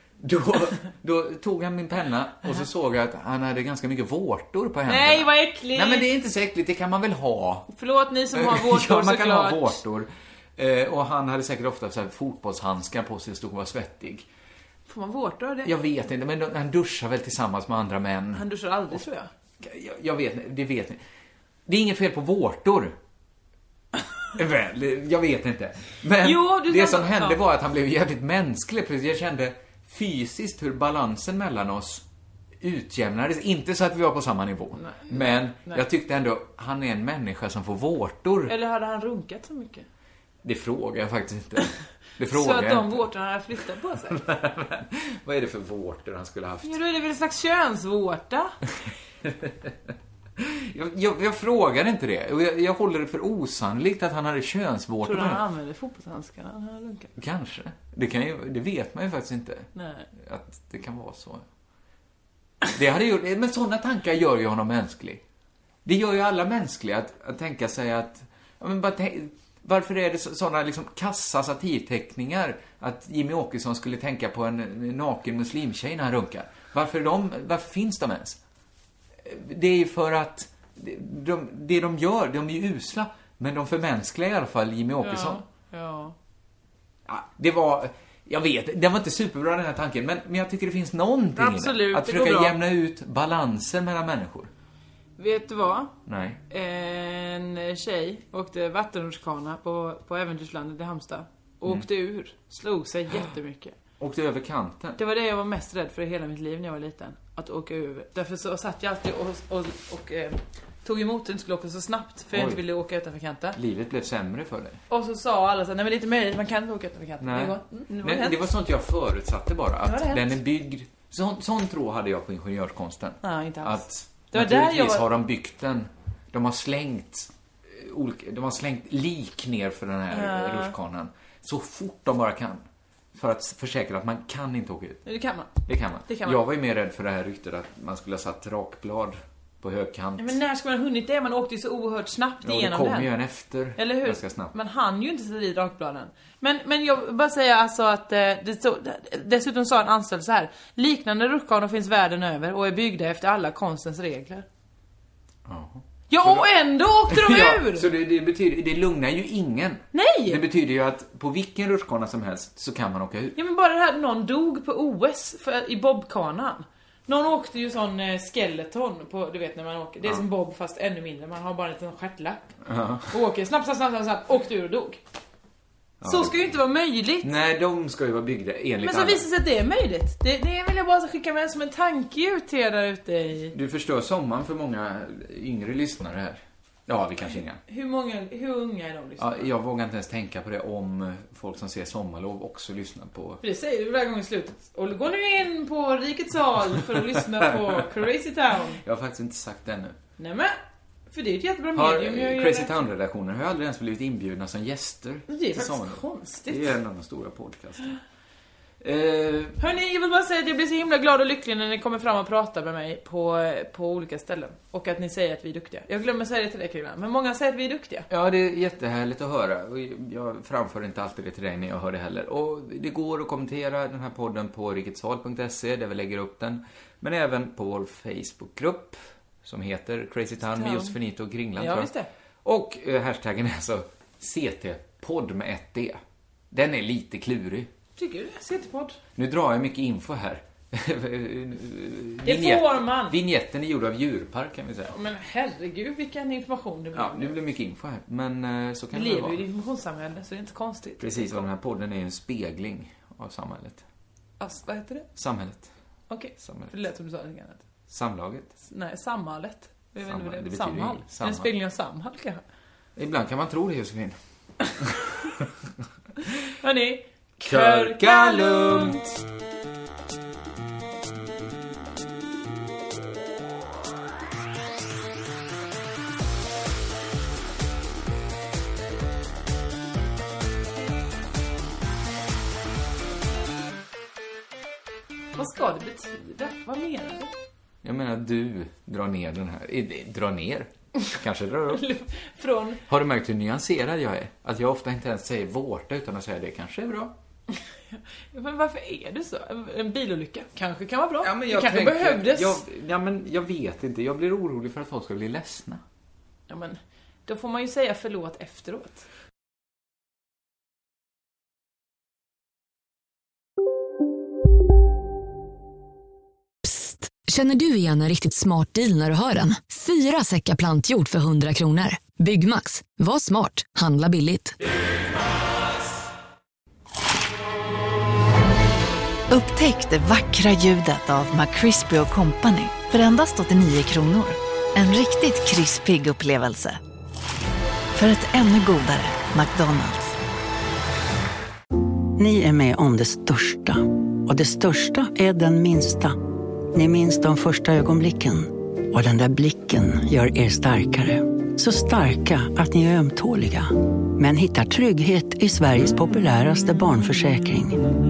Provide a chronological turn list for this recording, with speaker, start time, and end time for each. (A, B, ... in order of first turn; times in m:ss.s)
0:00.2-0:07.7 A
0:04.8-0:06.1 B
0:07.7-0:09.8 B
0:08.3-0:14.3 A
0:14.9-0:15.8 B
0:15.6-0:18.5 A
0:18.3-0:19.3 B
0:19.6-0:21.0 A
0:21.6-0:23.0 A
0:24.3-0:32.0 A
0:26.2-0:27.4 B
0:32.6-0:38.5 A
0:34.8-0:35.8 B
0:38.5-0:39.9 B
0:40.4-0:43.0 A
0:42.3-0:44.3 B
0:44.1-0:46.8 A
0:46.6-0:48.5 B
0:49.2-0:49.7 A
0:50.4-0:55.4 A
0:55.0-0:57.1 B
0:57.2-1:01.4 A
0:59.7-1:00.1 B
1:02.7-1:05.2 A
1:05.8-1:18.4 A
1:19.2-1:25.4 A
1:25.0-1:26.1 B
1:27.1-1:34.5 A
1:31.4-1:32.6 B
1:35.2-1:35.9 B
1:36.0-1:36.4 A
1:36.5-1:43.7 B
1:44.0-1:45.0 A
1:45.0-1:53.6 B
1:52.3-1:52.6 A
1:53.5-1:54.8 A
1:54.9-1:58.4 B
1:57.2-2:15.0 A
1:59.8-2:00.4 B
2:03.2-2:05.2 B
2:10.1-2:10.7 B
2:15.0-2:15.5 B
2:15.6-2:20.4 A
2:16.1-2:16.4 B
2:20.2-2:23.1 B
2:22.4-2:24.5 A
2:23.7-2:34.4 B
2:35.4-2:36.5 A
2:36.1-2:37.9 B
2:37.1-2:43.4 A
2:39.9-2:40.4 B
2:43.4-2:52.4 B
2:52.6-2:53.2 A
2:53.1-2:55.0 B
2:56.0-2:56.5 A
2:56.0-2:57.4 B
2:57.2-2:59.2 A
2:58.8-3:03.5 B
3:03.5-3:07.6 A
3:07.6-3:09.5 B
3:09.2-3:13.4 A
3:13.4-3:18.8 B
3:17.4-3:17.8 A
3:18.8-3:20.0 A
3:20.2-3:20.5 B
3:21.1-3:22.8 B
3:21.7-3:28.0 A
3:25.3-3:26.7 B
3:28.8-3:29.6 A
3:29.6-3:38.1 B
3:38.1-3:51.9 A
3:50.5-3:50.9 B
3:51.6-3:52.1 B
3:52.4-3:56.0 A
3:56.5-3:57.7 A
3:58.0-3:59.0 B
3:59.2-4:04.9 A
4:02.2-4:03.2 B
4:04.9-4:07.3 B
4:06.9-4:09.4 A
4:08.9-4:11.5 B
4:11.0-4:13.8 A
4:14.4-4:15.1 B
4:15.2-4:15.7 A
4:16.1-4:17.6 B
4:16.4-4:16.7 A
4:17.9-4:18.5 A
4:18.7-4:22.4 B
4:20.0-4:21.5 A
4:23.0-4:24.2 A
4:24.8-4:25.5 A
4:26.6-4:29.1 B
4:27.4-4:29.0 A
4:45.4-4:47.3 B
4:47.8-4:51.8 A
4:51.7-4:52.8 B
4:52.9-4:57.1 A
4:57.5-5:02.6 B
5:01.2-5:05.8 A
5:06.5-5:09.0 B
5:16.6-5:24.6 C
5:29.3-5:36.8 D
5:38.0-5:40.1 D
5:42.2-5:46.2 E
5:46.7-5:57.8 E